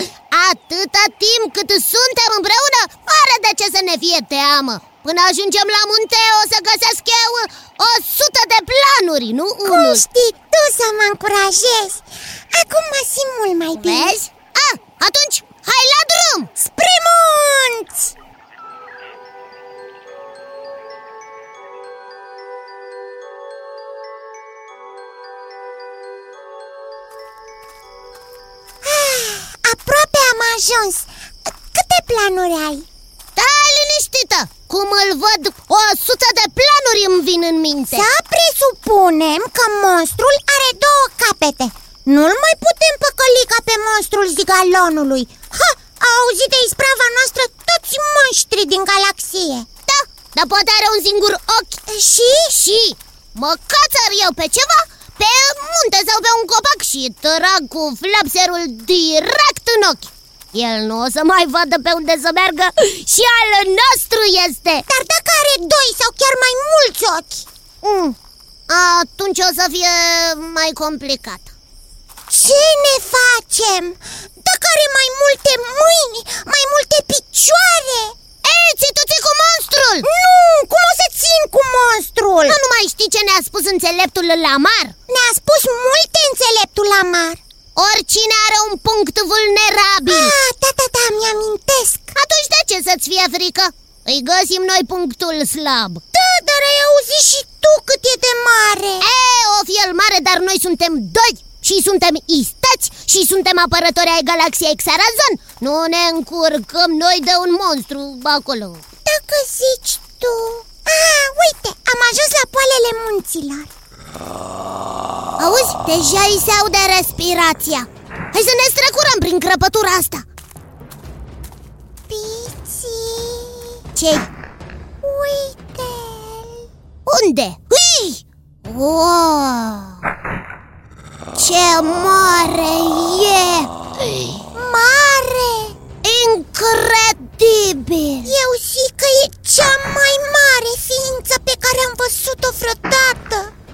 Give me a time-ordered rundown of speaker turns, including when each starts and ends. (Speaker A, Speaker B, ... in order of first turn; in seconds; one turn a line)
Speaker A: 0.3-10.0
Speaker B: 9.7-14.2
Speaker A: 13.8-16.5
Speaker B: 16.6-18.1
Speaker B: 28.9-32.9
Speaker A: 33.4-38.1
Speaker B: 37.9-49.7
Speaker A: 49.9-51.8
Speaker B: 51.9-52.5
Speaker A: 52.4-64.8
Speaker B: 64.9-67.5
Speaker A: 67.8-68.2
Speaker A: 68.7-71.5
Speaker B: 72.3-78.2
Speaker A: 78.4-80.1
Speaker B: 80.0-82.6
Speaker A: 82.5-85.0
Speaker B: 85.1-87.4
Speaker A: 87.8-90.3
Speaker B: 90.1-92.2
Speaker A: 92.2-96.0
Speaker B: 96.1-99.1
Speaker A: 99.0-108.8
Speaker B: 109.1-113.7
Speaker A: 115.4-120.3
Speaker B: 122.1-123.7
Speaker A: 124.0-124.3
Speaker B: 125.0-126.5
Speaker A: 127.1-130.0
Speaker A: 131.4-134.4
Speaker B: 134.5-135.8
Speaker A: 136.0-138.3
Speaker B: 138.2-143.5